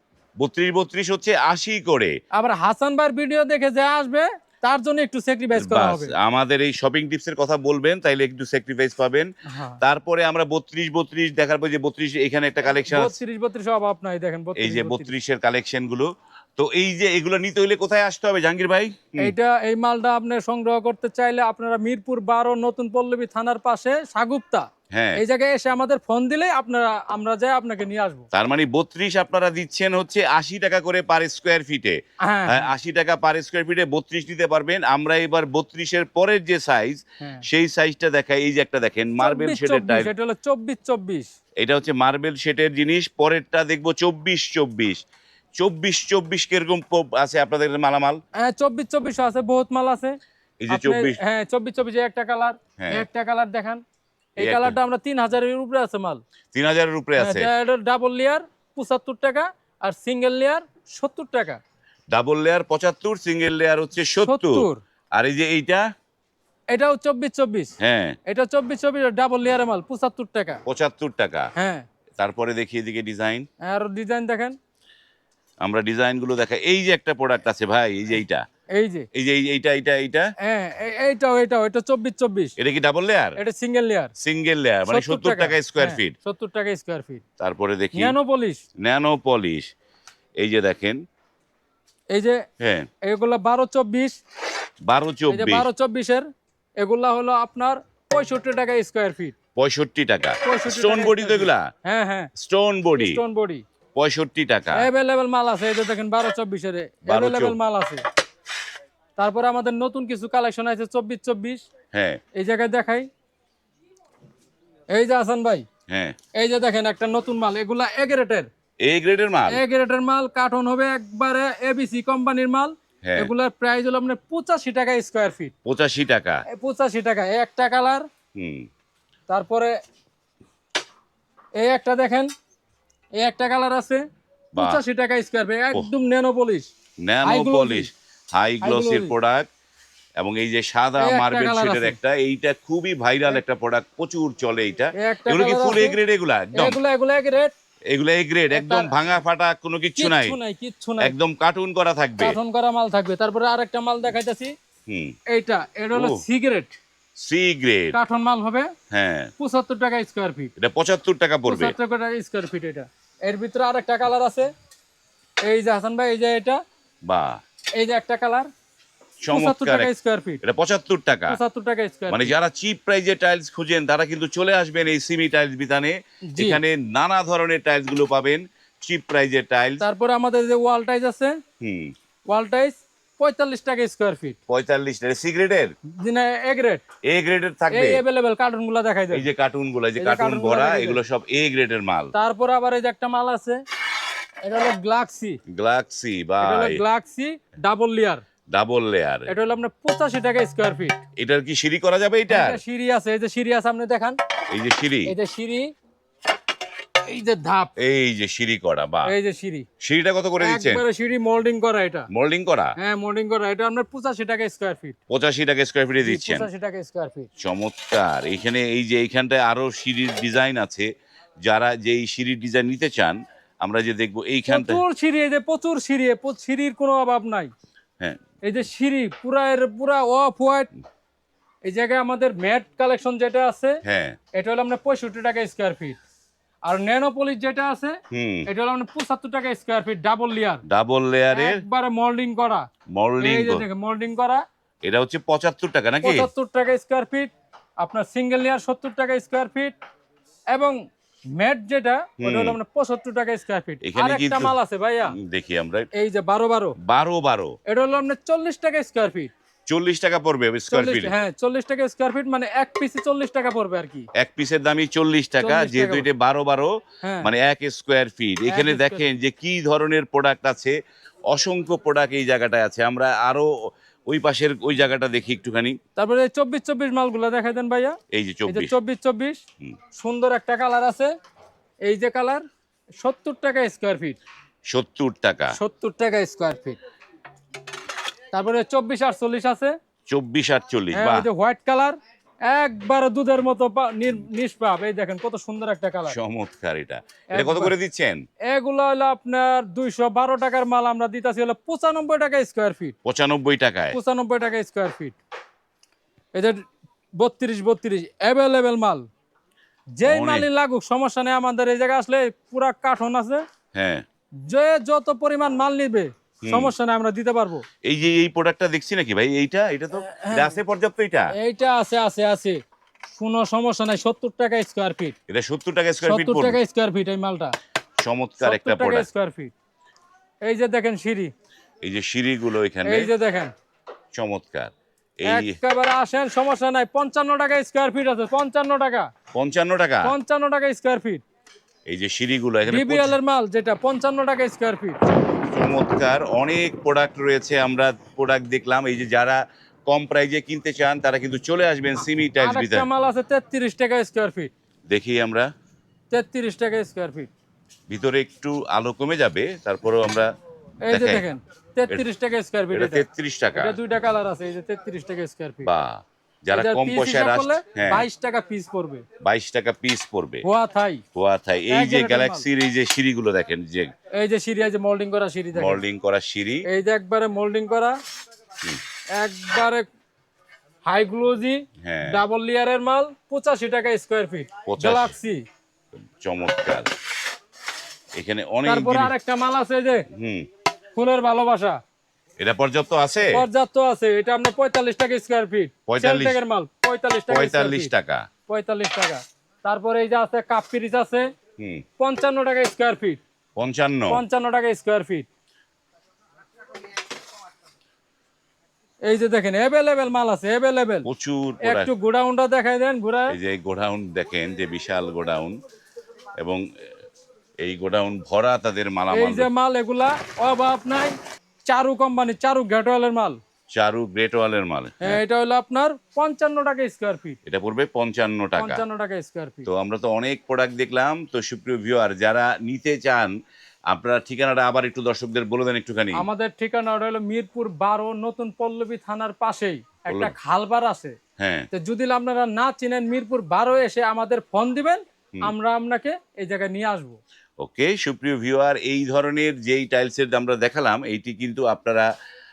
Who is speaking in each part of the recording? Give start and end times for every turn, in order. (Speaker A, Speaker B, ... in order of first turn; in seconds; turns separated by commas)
Speaker A: 0.4-2.1, Speaker B: 2.3-6.1, Speaker A: 5.5-9.3, Speaker B: 9.5-9.8, Speaker A: 9.8-13.2, Speaker B: 12.7-15.1, Speaker A: 14.6-19.3, Speaker B: 19.2-28.3, Speaker A: 24.9-25.2, Speaker A: 28.3-40.1, Speaker B: 32.2-32.7, Speaker B: 39.2-41.3, Speaker A: 41.6-45.0, Speaker A: 45.6-48.2, Speaker B: 48.4-50.2, Speaker A: 50.6-51.2, Speaker B: 50.7-53.8, Speaker A: 52.8-53.0, Speaker B: 54.4-56.2, Speaker A: 54.4-54.8, Speaker A: 56.5-57.5, Speaker B: 57.2-61.6, Speaker A: 62.1-65.8, Speaker B: 64.2-64.8, Speaker B: 66.7-67.7, Speaker A: 67.8-68.2, Speaker B: 68.2-70.6, Speaker A: 70.7-71.5, Speaker B: 71.5-71.8, Speaker A: 72.2-73.5, Speaker B: 73.6-74.6, Speaker A: 75.6-78.4, Speaker B: 78.7-79.1, Speaker A: 79.1-80.3, Speaker B: 80.4-82.5, Speaker A: 82.6-83.3, Speaker B: 83.4-84.1, Speaker A: 84.2-86.1, Speaker B: 84.9-87.2, Speaker A: 87.4-88.2, Speaker B: 87.9-88.6, Speaker A: 88.8-89.7, Speaker A: 90.4-91.0, Speaker B: 92.1-92.4, Speaker A: 92.6-92.9, Speaker B: 93.0-94.2, Speaker A: 94.9-95.7, Speaker B: 95.3-96.3, Speaker B: 96.8-99.3, Speaker A: 99.5-101.7, Speaker B: 100.4-102.3, Speaker A: 102.3-103.2, Speaker B: 103.0-103.6, Speaker A: 104.0-104.9, Speaker B: 104.7-108.0, Speaker A: 107.1-107.6, Speaker B: 109.2-111.6, Speaker A: 111.9-112.2, Speaker B: 112.3-113.1, Speaker B: 114.9-115.6, Speaker A: 115.9-116.1, Speaker B: 116.4-118.5, Speaker A: 118.8-119.6, Speaker B: 119.5-125.5, Speaker A: 123.0-123.3, Speaker A: 125.6-126.4, Speaker B: 126.5-128.1, Speaker A: 128.3-128.7, Speaker B: 129.3-129.7, Speaker B: 131.6-132.3, Speaker B: 133.2-134.0, Speaker A: 134.5-134.8, Speaker B: 134.6-136.7, Speaker A: 137.0-139.5, Speaker B: 137.2-137.9, Speaker B: 138.6-139.1, Speaker A: 140.2-146.8, Speaker B: 141.0-142.0, Speaker B: 145.0-146.0, Speaker B: 146.5-147.5, Speaker A: 147.9-150.4, Speaker B: 148.5-148.9, Speaker B: 150.0-151.1, Speaker A: 151.0-152.4, Speaker B: 152.2-154.5, Speaker A: 154.9-155.2, Speaker B: 155.3-156.8, Speaker A: 155.9-156.2, Speaker A: 157.2-158.0, Speaker B: 157.9-158.7, Speaker A: 158.9-159.3, Speaker B: 159.4-160.5, Speaker A: 160.6-161.7, Speaker B: 161.5-164.5, Speaker B: 165.4-166.6, Speaker A: 167.0-167.4, Speaker B: 167.7-168.5, Speaker A: 169.2-171.4, Speaker B: 169.3-170.4, Speaker B: 171.3-172.3, Speaker A: 172.1-179.8, Speaker B: 176.2-176.6, Speaker B: 179.8-181.4, Speaker A: 181.6-181.9, Speaker B: 182.3-184.4, Speaker A: 184.5-185.7, Speaker B: 186.0-186.8, Speaker A: 187.1-188.0, Speaker B: 187.7-189.2, Speaker A: 189.1-192.1, Speaker B: 190.0-191.0, Speaker B: 192.1-193.6, Speaker B: 194.4-195.4, Speaker A: 195.5-196.8, Speaker B: 196.4-198.2, Speaker A: 198.5-199.3, Speaker B: 199.3-201.0, Speaker A: 201.2-202.6, Speaker B: 202.3-204.2, Speaker A: 204.5-205.1, Speaker B: 205.1-205.7, Speaker B: 207.0-207.7, Speaker A: 207.8-209.1, Speaker B: 209.1-209.7, Speaker A: 209.8-210.8, Speaker B: 210.4-212.1, Speaker A: 212.1-212.7, Speaker B: 212.8-215.0, Speaker A: 215.1-216.5, Speaker B: 216.0-217.3, Speaker A: 217.4-220.9, Speaker A: 221.4-224.8, Speaker B: 224.5-227.5, Speaker B: 228.4-230.7, Speaker B: 231.6-233.8, Speaker A: 233.8-234.2, Speaker B: 234.3-236.0, Speaker B: 236.7-240.6, Speaker A: 238.1-238.5, Speaker A: 240.7-241.6, Speaker B: 241.3-242.7, Speaker A: 242.9-243.6, Speaker B: 243.2-244.4, Speaker A: 244.8-246.3, Speaker B: 246.0-249.7, Speaker B: 250.5-250.8, Speaker B: 251.3-255.1, Speaker A: 252.2-252.6, Speaker A: 253.8-254.6, Speaker A: 255.1-255.9, Speaker B: 255.9-256.8, Speaker A: 256.8-257.6, Speaker B: 257.7-259.3, Speaker A: 259.7-261.1, Speaker B: 260.7-264.1, Speaker A: 264.1-270.8, Speaker B: 265.4-266.1, Speaker B: 267.0-267.3, Speaker B: 268.5-269.1, Speaker A: 271.3-275.8, Speaker B: 275.9-279.4, Speaker A: 278.1-278.7, Speaker B: 279.9-281.1, Speaker B: 281.8-282.4, Speaker B: 283.0-284.2, Speaker A: 284.7-285.5, Speaker B: 285.5-286.8, Speaker B: 288.3-289.8, Speaker A: 290.1-291.3, Speaker B: 290.9-296.1, Speaker A: 296.1-298.2, Speaker B: 297.3-297.7, Speaker B: 298.5-302.9, Speaker A: 303.0-304.0, Speaker B: 303.9-305.2, Speaker B: 306.3-306.6, Speaker B: 307.2-309.0, Speaker B: 310.0-313.4, Speaker A: 310.0-310.5, Speaker A: 313.7-314.0, Speaker B: 314.4-317.6, Speaker A: 316.4-316.7, Speaker A: 317.9-321.3, Speaker B: 320.0-320.6, Speaker B: 321.4-322.6, Speaker B: 323.1-325.1, Speaker A: 325.3-326.6, Speaker B: 326.1-327.5, Speaker A: 328.0-329.1, Speaker B: 328.4-329.5, Speaker B: 330.4-331.3, Speaker A: 331.8-333.1, Speaker B: 332.8-333.5, Speaker A: 334.1-335.6, Speaker B: 335.2-339.1, Speaker A: 339.3-340.1, Speaker B: 340.0-341.2, Speaker A: 341.9-343.2, Speaker B: 342.7-345.0, Speaker A: 345.5-352.9, Speaker B: 352.4-354.5, Speaker A: 354.9-355.5, Speaker B: 356.1-357.3, Speaker A: 357.9-360.3, Speaker B: 360.8-363.0, Speaker A: 360.9-361.2, Speaker A: 362.7-363.8, Speaker B: 363.6-365.7, Speaker A: 365.6-368.1, Speaker B: 366.5-369.0, Speaker A: 369.2-370.4, Speaker B: 370.4-371.0, Speaker A: 371.1-373.9, Speaker B: 371.7-372.4, Speaker B: 374.1-375.8, Speaker A: 375.5-376.6, Speaker B: 376.6-378.0, Speaker B: 379.1-379.9, Speaker B: 380.8-385.4, Speaker A: 381.8-382.2, Speaker A: 384.7-385.1, Speaker A: 386.2-386.9, Speaker A: 388.1-389.1, Speaker B: 388.6-390.1, Speaker A: 390.1-390.4, Speaker B: 390.9-391.8, Speaker A: 392.4-393.4, Speaker B: 393.3-397.9, Speaker A: 395.9-396.4, Speaker A: 397.3-398.2, Speaker B: 398.5-401.3, Speaker A: 401.6-401.8, Speaker B: 402.0-403.2, Speaker A: 403.6-404.2, Speaker B: 404.1-405.3, Speaker B: 409.1-411.1, Speaker A: 411.1-411.9, Speaker B: 411.6-413.4, Speaker A: 413.3-415.6, Speaker A: 417.6-419.5, Speaker B: 419.1-421.1, Speaker B: 421.7-423.4, Speaker A: 423.7-425.2, Speaker B: 425.0-427.4, Speaker A: 427.4-428.8, Speaker B: 428.6-429.7, Speaker A: 429.6-433.4, Speaker A: 433.9-436.3, Speaker B: 436.1-441.2, Speaker A: 440.1-440.3, Speaker A: 441.4-441.7, Speaker B: 441.7-447.2, Speaker A: 447.6-452.1